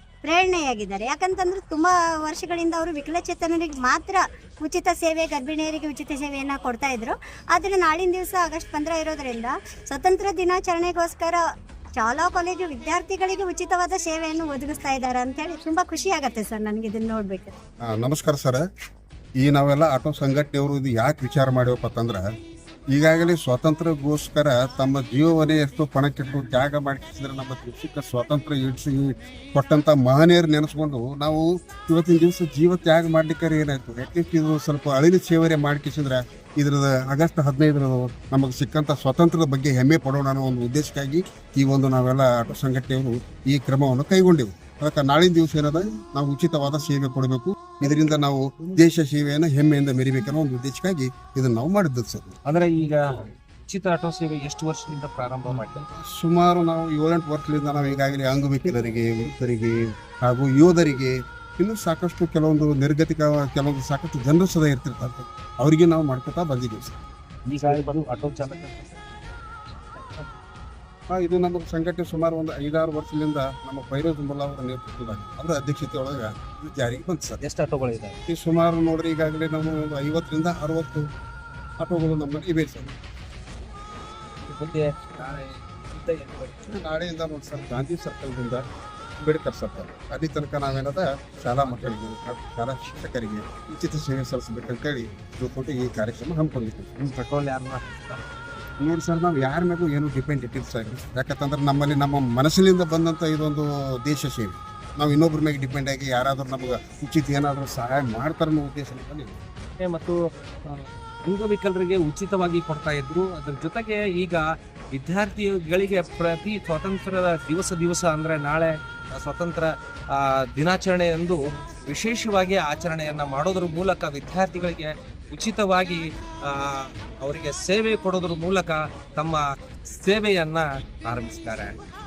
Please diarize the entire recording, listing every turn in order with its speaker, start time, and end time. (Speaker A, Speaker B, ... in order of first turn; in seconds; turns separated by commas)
Speaker A: 0.2-11.4, Speaker A: 12.0-17.5, Speaker B: 17.9-18.6, Speaker B: 19.4-22.3, Speaker B: 22.9-52.4, Speaker C: 52.5-55.9, Speaker B: 55.9-67.0, Speaker C: 67.5-69.0, Speaker B: 71.1-77.4, Speaker C: 77.4-78.2, Speaker B: 78.3-81.1, Speaker B: 81.8-82.9, Speaker C: 84.4-86.8, Speaker B: 86.7-88.6, Speaker B: 89.2-97.0, Speaker C: 91.6-92.0, Speaker C: 97.0-98.2, Speaker B: 98.8-109.4, Speaker C: 109.8-131.8